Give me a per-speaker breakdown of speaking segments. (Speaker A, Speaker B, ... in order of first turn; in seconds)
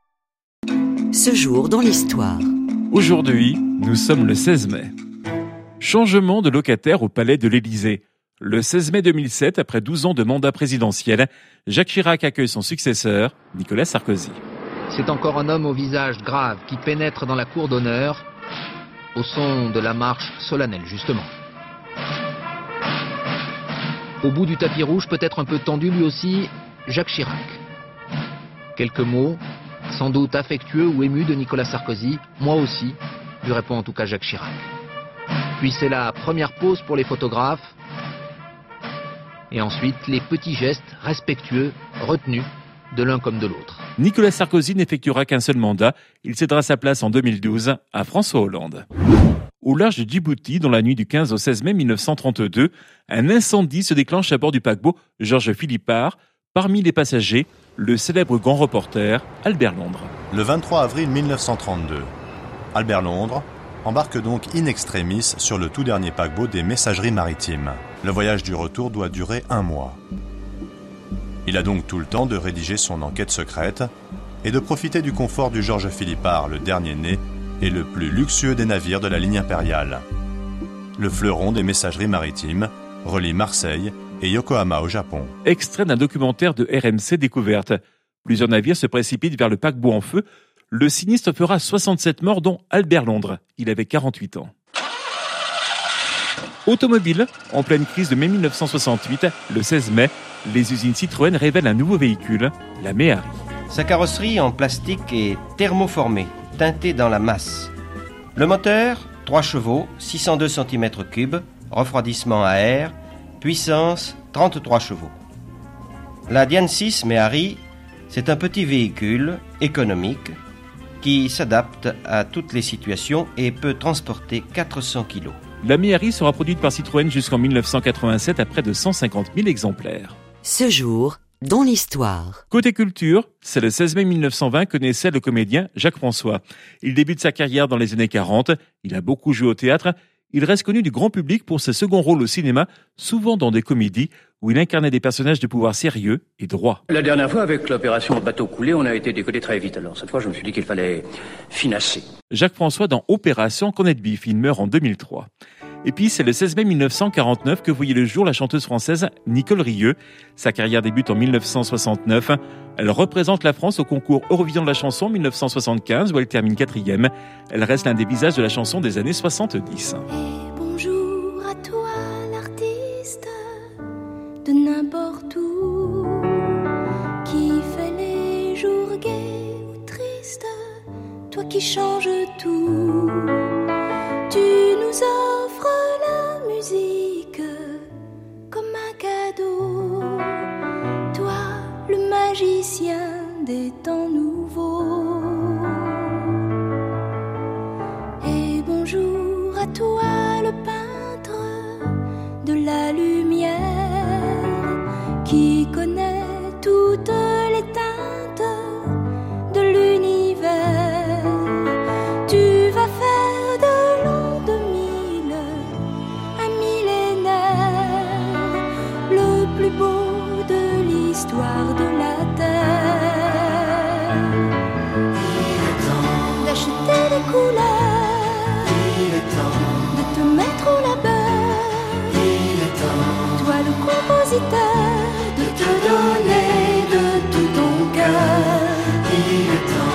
Speaker A: 1.1-2.5, 130.4-132.4
Speaker B: 2.9-4.9, 5.8-14.4, 44.0-48.8, 49.6-60.1, 85.4-94.5, 96.7-103.4, 125.6-130.2, 132.5-146.8, 152.3-155.3, 155.8-170.1
Speaker C: 14.9-18.3, 19.1-21.3, 24.2-27.6, 28.8-34.7, 35.6-37.7, 39.5-43.8
Speaker D: 60.3-62.1, 62.7-70.0, 71.5-73.9, 74.4-80.0, 81.0-85.3
Speaker E: 103.7-107.7, 108.3-115.2, 116.3-120.3, 121.0-125.4
Speaker F: 146.9-152.1
Speaker G: 170.1-173.7, 174.4-176.6, 177.2-180.7, 181.3-183.5, 184.3-187.9, 188.5-190.5, 191.1-196.3, 198.2-215.8, 216.3-224.4, 225.9-239.6